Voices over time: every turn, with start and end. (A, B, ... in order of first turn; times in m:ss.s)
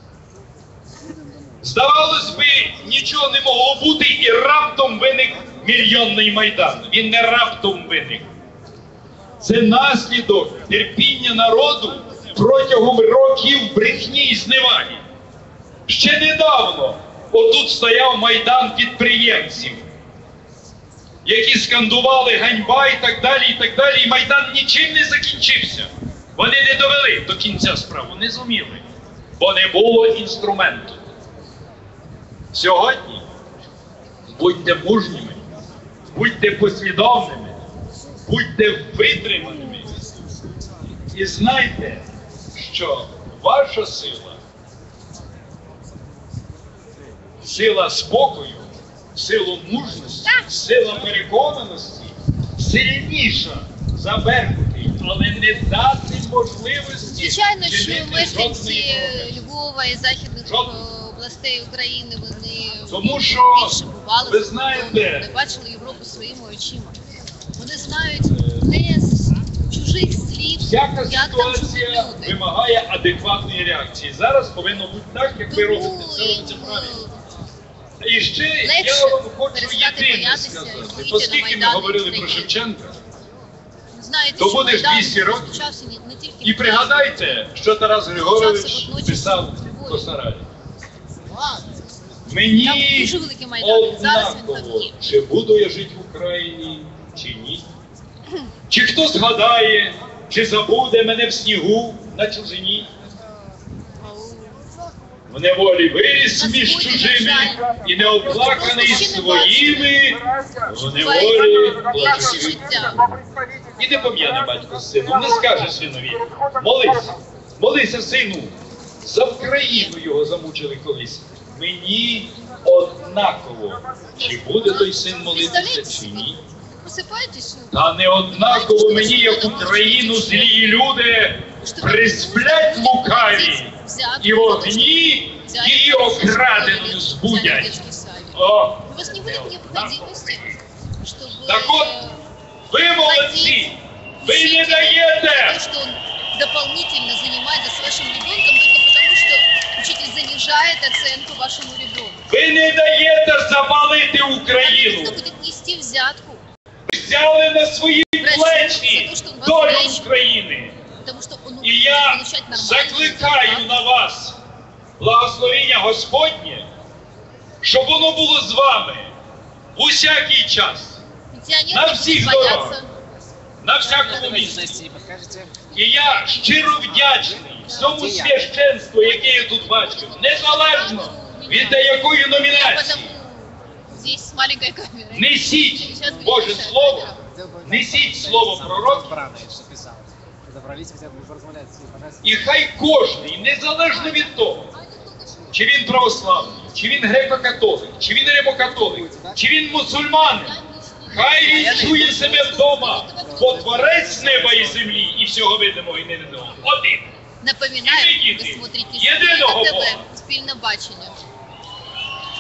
0:01.6-0:08.3 A
0:09.4-0:15.0 A
0:15.9-0:19.8 A
0:21.2-0:28.8 A
0:29.4-0:31.0 A
0:32.5-0:33.2 A
0:34.3-0:35.4 A
0:36.1-0:37.6 A
0:38.3-0:40.1 A
0:41.1-0:44.4 A
0:47.4-0:59.3 A
0:57.1-1:07.0 B
1:00.4-1:00.8 A
1:02.9-1:05.3 A
1:07.6-1:12.4 B
1:08.3-1:08.6 A
1:10.6-1:17.0 A
1:15.5-1:17.1 B
1:18.0-1:23.0 A
1:18.6-1:22.6 B
1:23.9-1:27.2 B
1:24.4-1:25.6 A
1:26.4-1:30.4 A
1:28.3-1:30.1 B
1:32.2-1:37.6 A
1:32.6-1:34.9 B
1:38.7-1:42.9 A
1:44.0-1:44.6 B
1:45.3-1:53.2 A
1:46.4-1:47.6 B
1:48.2-1:50.0 B
1:51.0-1:53.1 B
1:53.8-2:06.4 A
1:59.6-1:59.9 B
2:04.2-2:10.9 B
2:07.7-2:17.8 A
2:11.6-2:22.2 B
2:18.4-2:20.4 A
2:21.4-2:21.9 A
2:22.7-2:25.6 A
2:23.0-2:32.2 B
2:32.3-2:35.2 A
2:34.6-2:36.4 B
2:36.9-2:40.7 A
2:38.2-2:40.0 B
2:41.0-2:43.8 B
2:41.6-2:44.4 A
2:45.0-2:46.7 A
2:47.6-2:49.1 A
2:49.7-2:51.0 A
2:51.3-2:52.9 B
2:51.7-2:52.8 A
2:53.6-2:55.0 A
2:54.9-2:55.5 C
2:55.7-3:03.1 A
2:57.7-2:58.3 B
2:59.0-3:01.9 B
3:02.5-3:07.2 B
3:05.1-3:09.6 A
3:09.4-3:10.0 C
3:10.5-3:12.1 C
3:12.2-3:14.7 A
3:15.5-3:20.6 A
3:20.2-3:23.6 B
3:21.1-3:27.1 A
3:27.4-3:31.2 B
3:27.8-3:30.0 A